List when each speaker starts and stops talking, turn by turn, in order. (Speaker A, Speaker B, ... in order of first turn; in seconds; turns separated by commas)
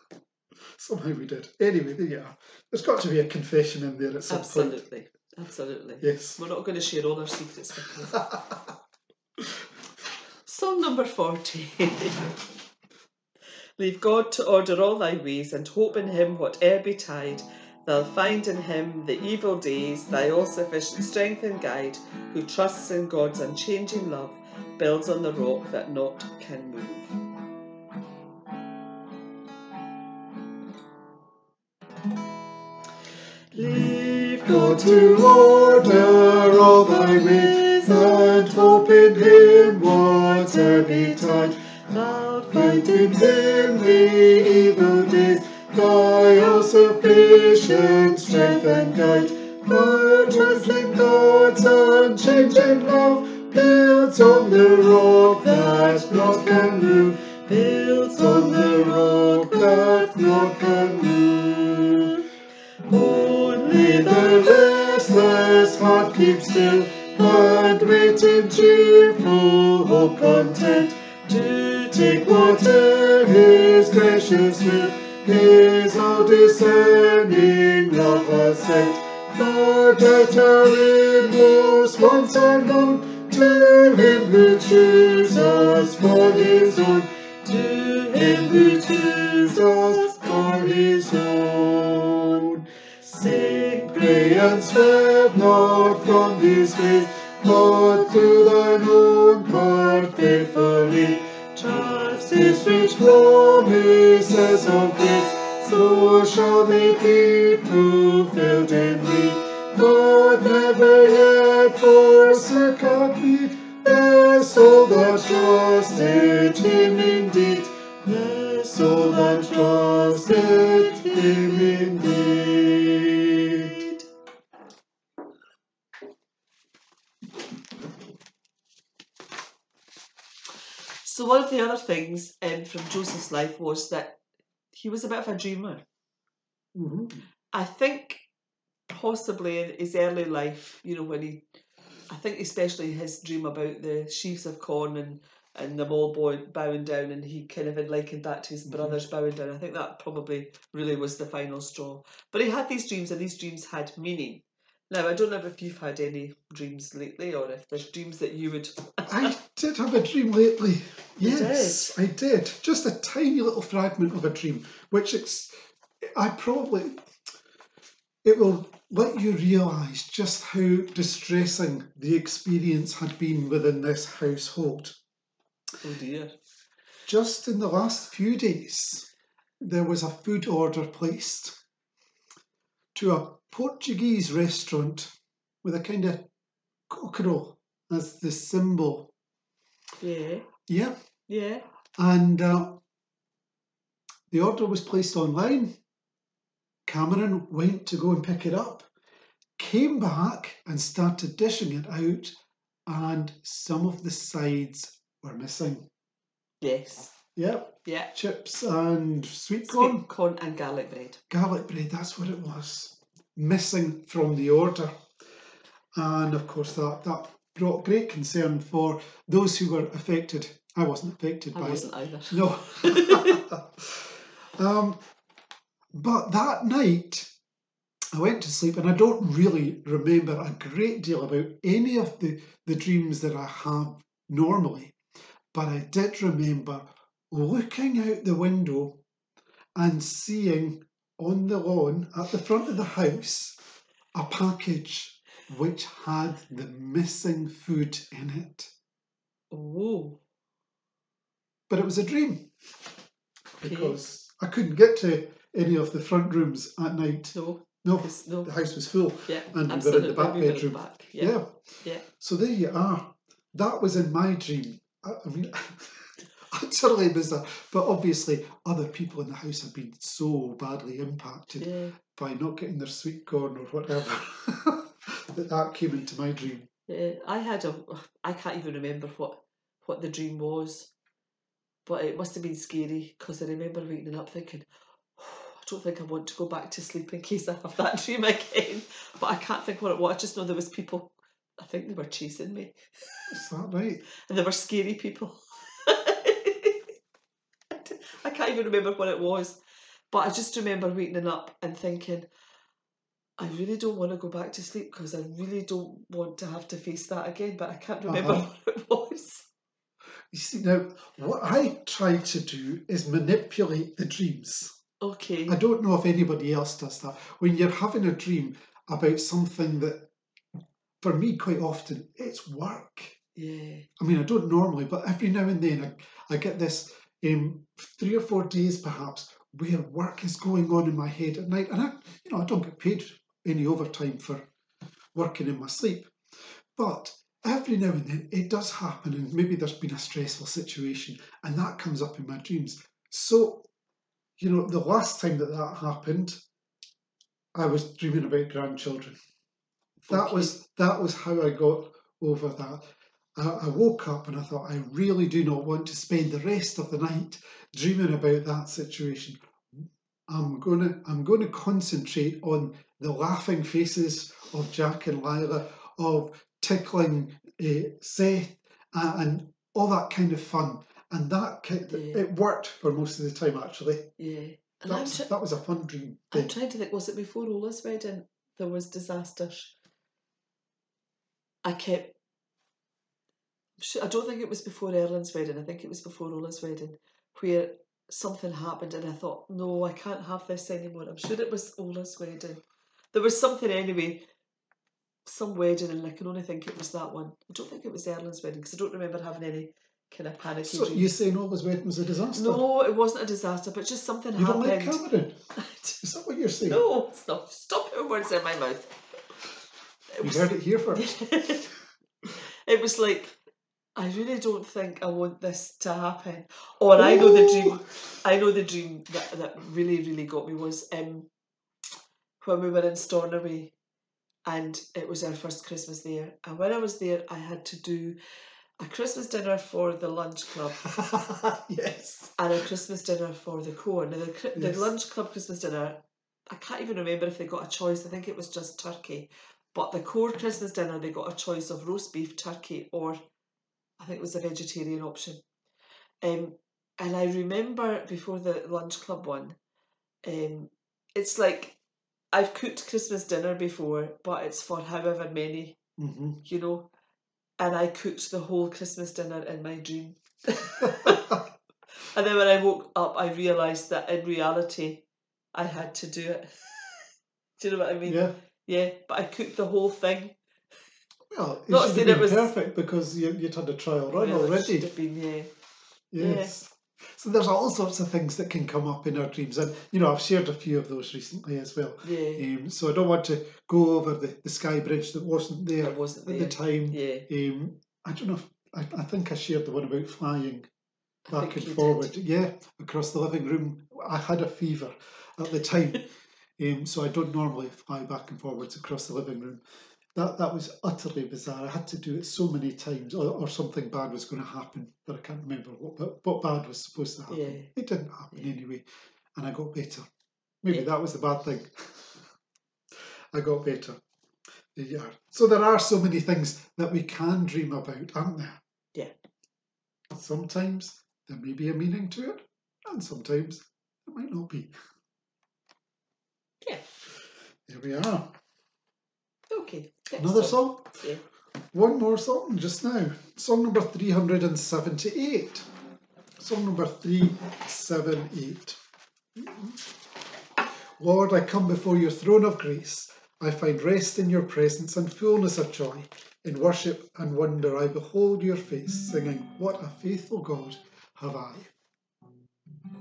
Speaker A: 0.8-4.8, Speaker B: 4.3-8.3, Speaker A: 6.0-6.4, Speaker A: 8.2-8.5, Speaker B: 10.4-12.3, Speaker B: 13.8-27.1, Speaker B: 33.5-35.2, Speaker A: 33.5-62.2, Speaker B: 42.0-42.9, Speaker B: 48.5-49.0, Speaker B: 55.5-56.6, Speaker B: 57.5-60.5, Speaker B: 62.9-64.6, Speaker A: 62.9-92.6, Speaker B: 87.5-89.3, Speaker B: 93.0-94.5, Speaker A: 93.2-123.8, Speaker B: 101.5-102.9, Speaker B: 118.6-122.2, Speaker B: 123.6-124.0, Speaker B: 131.0-134.2, Speaker B: 134.7-135.8, Speaker A: 136.7-137.2, Speaker B: 137.5-138.2, Speaker B: 138.9-141.4, Speaker B: 142.1-159.3, Speaker A: 148.7-149.0, Speaker A: 159.1-167.0, Speaker B: 161.2-161.9, Speaker A: 168.2-175.0, Speaker B: 175.8-176.3, Speaker A: 177.1-179.1, Speaker A: 179.6-181.6, Speaker A: 182.9-185.1, Speaker A: 185.6-186.2, Speaker A: 186.9-189.1, Speaker B: 190.0-190.5, Speaker A: 190.7-190.9, Speaker B: 191.3-191.6, Speaker A: 192.0-192.8, Speaker A: 194.3-195.7, Speaker A: 196.9-198.9, Speaker A: 199.6-202.3, Speaker A: 202.9-205.9, Speaker B: 206.6-207.1, Speaker A: 207.3-210.0, Speaker B: 207.8-208.1, Speaker B: 209.7-211.2, Speaker A: 211.3-214.9, Speaker A: 215.9-225.0, Speaker B: 221.5-223.4, Speaker A: 225.9-227.3, Speaker A: 228.1-234.9, Speaker A: 235.5-239.0, Speaker A: 239.8-243.6, Speaker A: 244.1-248.7, Speaker B: 249.5-250.2, Speaker A: 251.7-252.5, Speaker A: 253.6-261.5, Speaker B: 253.6-254.0, Speaker B: 257.3-258.5, Speaker B: 259.3-262.0, Speaker A: 262.1-276.7, Speaker B: 271.6-271.9, Speaker B: 276.9-280.9, Speaker B: 281.9-293.3, Speaker A: 293.3-294.0, Speaker B: 294.2-296.9, Speaker B: 297.7-299.6, Speaker B: 300.1-302.3, Speaker B: 303.4-309.5, Speaker A: 308.1-308.5, Speaker A: 310.3-314.8, Speaker B: 315.0-315.6, Speaker A: 315.5-320.1, Speaker A: 321.0-323.2, Speaker B: 323.3-323.9, Speaker A: 324.0-334.4, Speaker A: 335.1-336.1, Speaker A: 336.8-343.7, Speaker A: 344.4-346.4, Speaker A: 347.5-349.2, Speaker B: 350.1-350.5, Speaker A: 350.1-352.8, Speaker A: 353.4-374.1, Speaker B: 371.9-372.2, Speaker B: 374.2-375.3, Speaker A: 374.9-376.6, Speaker B: 376.3-379.7, Speaker B: 381.6-382.1, Speaker B: 383.8-394.2, Speaker B: 395.2-401.1, Speaker A: 400.6-402.6, Speaker B: 402.3-405.0, Speaker A: 404.4-405.4, Speaker B: 405.6-406.0, Speaker A: 406.0-406.8, Speaker B: 406.6-408.9, Speaker B: 410.1-411.7, Speaker A: 410.2-411.1, Speaker B: 412.6-413.4, Speaker B: 413.9-421.3, Speaker A: 416.9-417.8, Speaker B: 422.4-423.7, Speaker B: 424.4-428.1, Speaker B: 428.8-430.9, Speaker A: 430.8-432.4, Speaker B: 432.4-443.2, Speaker A: 434.5-434.9, Speaker B: 444.0-445.4, Speaker B: 446.2-449.6, Speaker B: 450.2-451.8, Speaker B: 452.3-455.8, Speaker A: 456.0-456.4, Speaker B: 456.4-456.9, Speaker B: 457.6-461.4, Speaker A: 460.8-461.4, Speaker B: 462.0-470.3, Speaker A: 468.1-468.3, Speaker A: 471.3-474.9, Speaker B: 471.7-472.5, Speaker B: 474.1-475.5, Speaker A: 476.1-490.7, Speaker B: 476.2-476.5, Speaker B: 482.0-482.4, Speaker B: 485.8-487.2, Speaker B: 491.3-492.1, Speaker A: 491.3-496.1, Speaker A: 496.6-499.6, Speaker A: 500.1-510.1, Speaker B: 507.3-507.7, Speaker A: 510.6-512.3, Speaker A: 513.3-514.0, Speaker A: 514.7-518.6, Speaker A: 520.1-524.7, Speaker A: 527.7-528.3, Speaker B: 529.5-531.2, Speaker A: 530.2-531.0, Speaker A: 531.7-535.6, Speaker A: 536.4-538.8, Speaker A: 539.3-539.8, Speaker A: 541.0-551.7